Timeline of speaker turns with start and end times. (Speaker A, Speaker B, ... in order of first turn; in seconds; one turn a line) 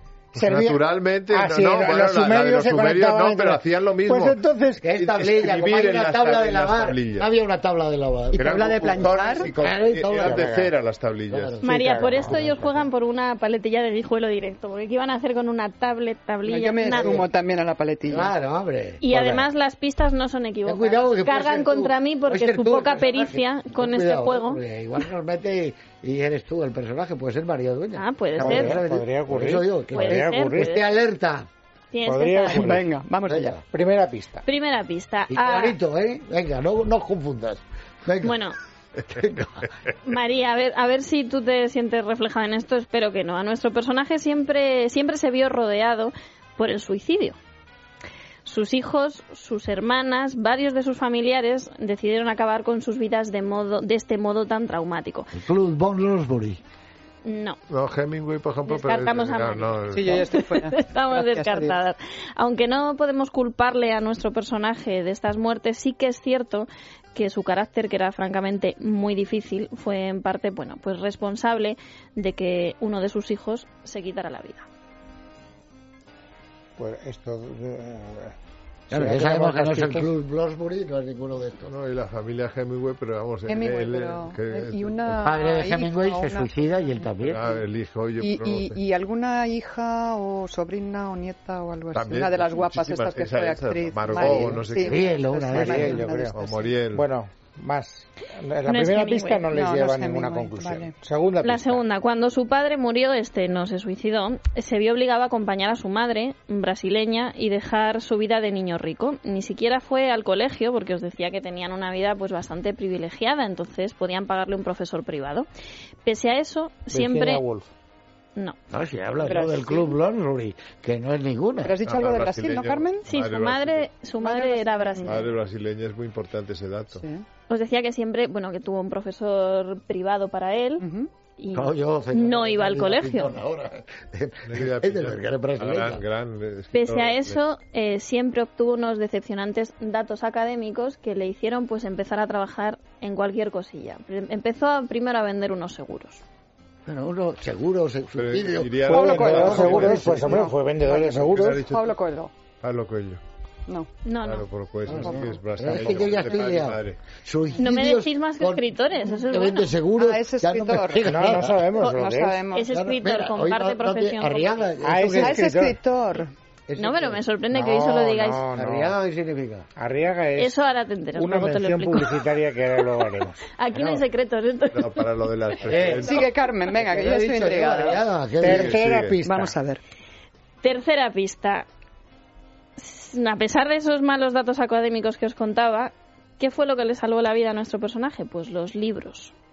Speaker A: 0.3-4.8
Speaker B: 0.3-4.4
Speaker C: 4.8-8.4
Speaker B: 5.0-7.3
Speaker D: 8.3-9.5
Speaker B: 8.3-11.6
Speaker C: 9.6-10.4
Speaker A: 10.2-10.7
Speaker C: 11.3-12.7
Speaker E: 11.6-17.2
Speaker A: 12.0-12.5
Speaker D: 16.5-18.3
Speaker C: 16.9-17.2
Speaker C: 18.1-19.0
Speaker E: 19.0-24.6
Speaker A: 19.1-19.5
Speaker C: 20.6-31.5
Speaker E: 27.9-28.7
Speaker A: 28.4-30.7
Speaker E: 29.9-30.8
Speaker E: 31.9-32.7
Speaker A: 32.0-32.8
Speaker D: 32.4-33.6
Speaker C: 33.3-33.6
Speaker A: 33.7-34.5
Speaker E: 34.4-35.8
Speaker C: 35.3-38.4
Speaker E: 38.2-38.5
Speaker C: 39.1-39.6
Speaker E: 40.0-47.4
Speaker E: 48.4-55.3
Speaker C: 55.3-56.6
Speaker E: 57.2-57.6
Speaker B: 57.7-60.2
Speaker E: 58.6-74.6
Speaker D: 59.9-61.8
Speaker A: 76.8-78.3
Speaker A: 78.9-80.1
Speaker C: 78.9-81.7
Speaker B: 81.7-85.2
Speaker D: 83.5-86.5
Speaker C: 85.2-87.5
Speaker B: 87.2-88.8
Speaker D: 88.2-96.8
Speaker B: 91.9-95.1
Speaker A: 94.3-94.6
Speaker C: 94.3-96.0
Speaker A: 95.5-96.4
Speaker B: 96.3-97.0
Speaker A: 96.9-101.8
Speaker E: 98.7-99.5
Speaker D: 99.5-100.9
Speaker E: 101.4-115.5
Speaker E: 116.0-117.4
Speaker A: 116.9-117.7
Speaker C: 118.7-121.7
Speaker D: 119.2-119.9
Speaker D: 121.6-123.0
Speaker B: 121.8-123.9
Speaker E: 123.1-125.1
Speaker D: 124.2-125.3
Speaker B: 125.0-127.0
Speaker D: 126.9-127.2
Speaker E: 127.5-130.9
Speaker D: 130.8-131.1
Speaker E: 131.4-133.3
Speaker C: 131.5-136.0
Speaker B: 134.4-137.4
Speaker E: 136.7-146.2
Speaker C: 146.8-150.4
Speaker B: 148.2-150.2
Speaker A: 148.9-151.7
Speaker D: 148.9-150.5
Speaker B: 151.1-151.9
Speaker D: 151.5-152.3
Speaker B: 152.6-153.2
Speaker E: 154.0-154.5
Speaker B: 154.2-157.0
Speaker C: 154.8-161.6
Speaker D: 154.9-155.3
Speaker E: 157.6-159.7
Speaker D: 160.0-162.7
Speaker A: 161.0-162.4
Speaker E: 161.8-164.5
Speaker C: 162.7-165.4
Speaker A: 164.8-165.7
Speaker D: 165.1-166.3
Speaker C: 166.7-167.2
Speaker E: 166.8-168.4
Speaker A: 167.5-168.9
Speaker C: 168.5-169.7
Speaker A: 169.8-173.4
Speaker E: 170.3-172.2
Speaker E: 173.6-175.1
Speaker C: 173.7-174.0
Speaker B: 174.7-176.2
Speaker C: 175.6-176.2
Speaker D: 175.9-178.0
Speaker C: 176.7-178.8
Speaker A: 178.4-179.6
Speaker B: 178.4-179.2
Speaker D: 179.2-179.8
Speaker E: 180.6-181.7
Speaker E: 182.8-189.3